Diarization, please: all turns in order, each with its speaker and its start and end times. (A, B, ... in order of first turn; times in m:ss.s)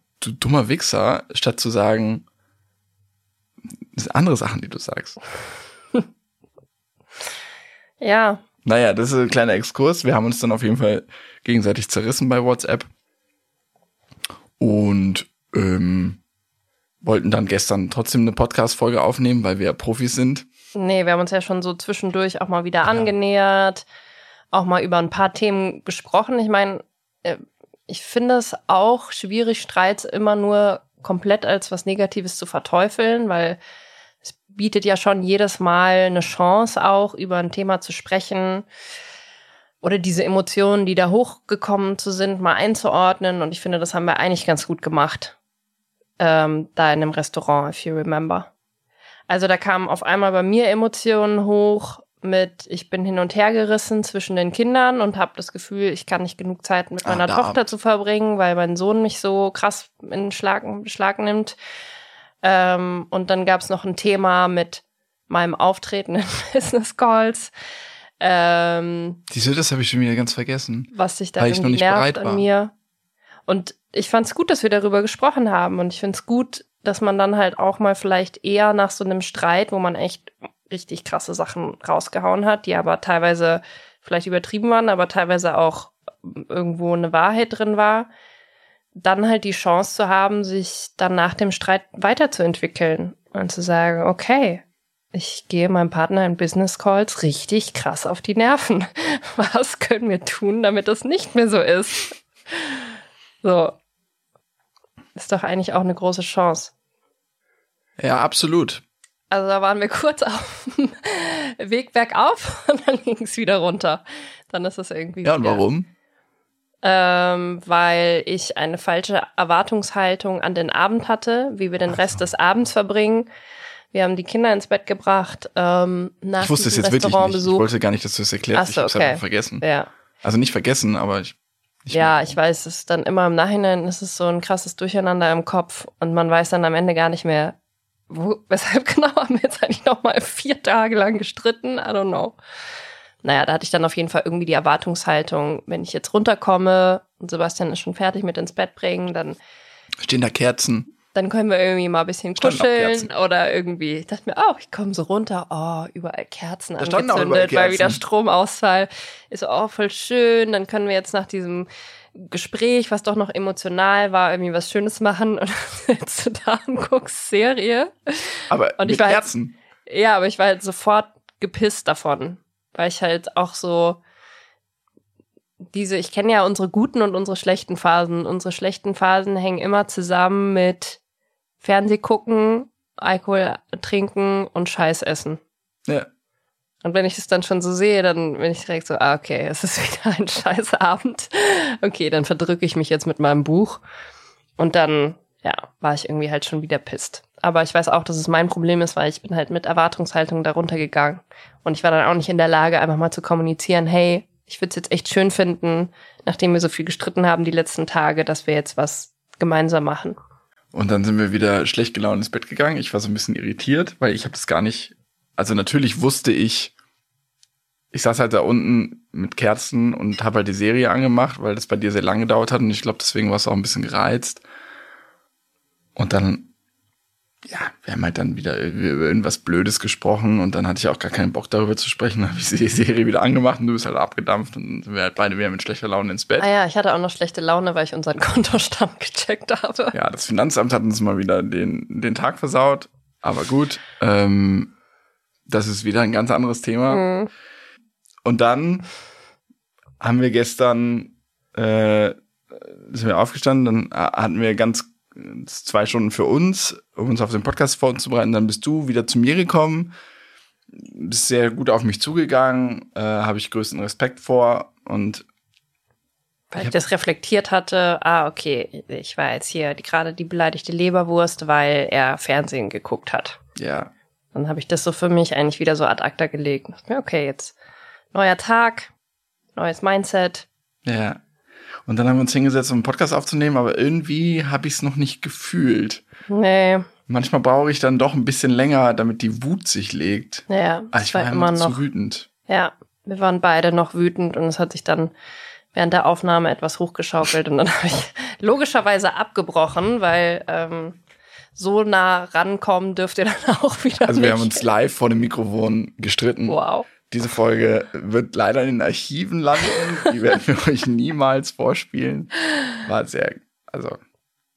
0:00.2-0:02.2 A
0:03.9-0:05.2 A
0:08.0-0:08.4 B
0:08.6-0:12.9 A
0:14.6-0:16.2 A
0:17.0-0:20.5 A
0:20.7-0:23.8 B
0:24.5-0:33.6 B
0:34.2-0:38.7 B
0:39.8-0:45.4 B
0:46.2-0:48.5 B
0:49.3-1:01.6 B
0:57.0-0:57.7 A
1:02.4-1:07.5 B
1:08.2-1:09.2 B
1:09.3-1:12.5 A
1:10.9-1:12.7 B
1:13.5-1:28.1 B
1:29.0-1:43.8 B
1:45.1-1:46.7 B
1:48.0-1:48.8 A
1:49.3-1:55.6 B
1:55.2-1:55.9 A
1:56.8-2:03.3 B
2:03.9-2:07.7 B
2:06.4-2:09.6 A
2:08.5-2:09.9 B
2:10.2-2:12.3 A
2:11.9-2:17.6 B
2:18.1-2:22.4 B
2:23.2-2:29.4 B
2:30.0-2:30.9 A
2:31.1-2:49.2 B
2:32.4-2:33.1 A
2:36.8-2:38.0 A
2:48.5-2:49.5 A
2:49.8-2:54.0 B
2:55.7-3:01.0 B
3:01.6-3:05.4 B
3:06.8-3:13.8 B
3:14.6-3:30.2 B
3:30.7-3:36.7 A
3:37.9-3:44.4 A
3:46.0-3:46.5 A
3:47.4-3:56.5 A
3:56.4-3:59.9 B
3:59.9-4:04.7 A
4:05.5-4:07.0 A
4:06.9-4:07.3 B
4:08.2-4:08.9 A
4:10.0-4:19.9 A
4:20.7-4:25.2 A
4:26.5-4:33.4 B
4:33.6-4:33.9 A
4:34.3-4:37.5 B
4:38.1-4:38.9 B
4:39.5-4:40.4 B
4:40.8-4:41.2 A
4:41.8-4:46.0 A
4:46.3-4:46.9 B
4:47.1-4:52.3 A
4:50.5-4:51.8 B
4:52.5-4:55.1 B
4:55.7-5:01.0 B
5:01.6-5:04.6 B
5:04.1-5:14.0 A
5:06.5-5:06.9 B